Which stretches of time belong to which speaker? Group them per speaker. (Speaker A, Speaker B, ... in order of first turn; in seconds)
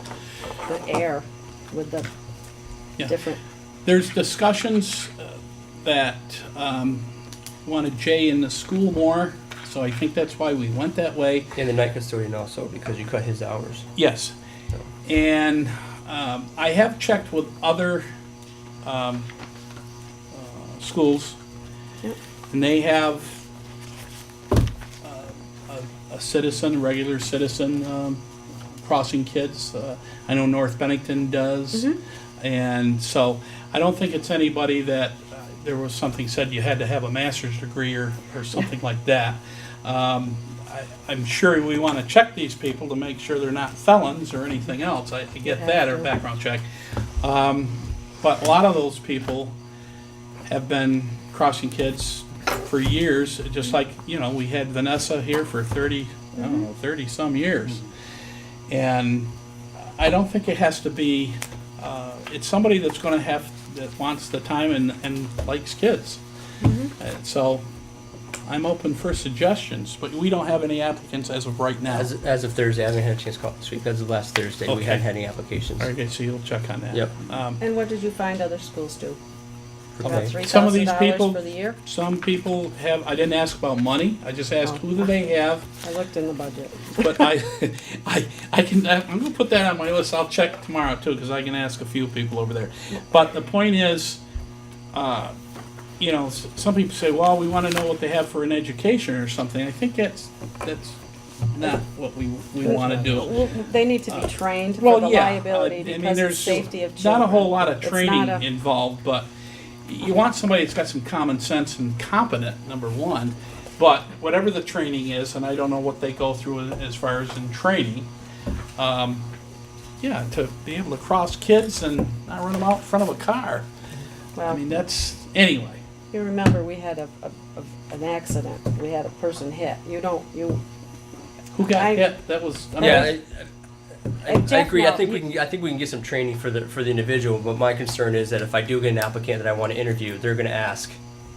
Speaker A: 0.7-2.1, 3.0-3.4, 31.7-32.0, 45.4-46.1, 56.4-56.6, 66.6-66.9, 77.6-79.2, 80.0-81.8, 84.7-85.1, 85.8-87.3, 102.6-108.5, 124.4-124.6, 126.1-130.6, 131.7-132.1, 132.8-133.1, 134.3-135.3
Speaker B: 3.9-7.0, 7.7-11.5, 13.9-14.3, 15.1-18.1, 18.8-19.3, 20.3-21.4, 22.5-23.4, 25.0-28.2, 28.8-49.5, 50.5-57.9, 58.7-59.3, 60.0-66.2, 67.0-67.6, 68.5-72.1, 74.7-75.1, 75.8-77.6, 80.0-85.7, 87.0-94.2, 94.9-95.3, 96.0-101.0, 101.5-103.5, 104.1-109.3, 109.8-118.1, 118.8-119.3, 120.0-123.7, 124.5-125.8, 131.5-133.2
Speaker C: 11.6-13.9, 71.9-75.9, 76.9-77.2, 80.0-80.3, 132.8-133.5, 134.2-141.0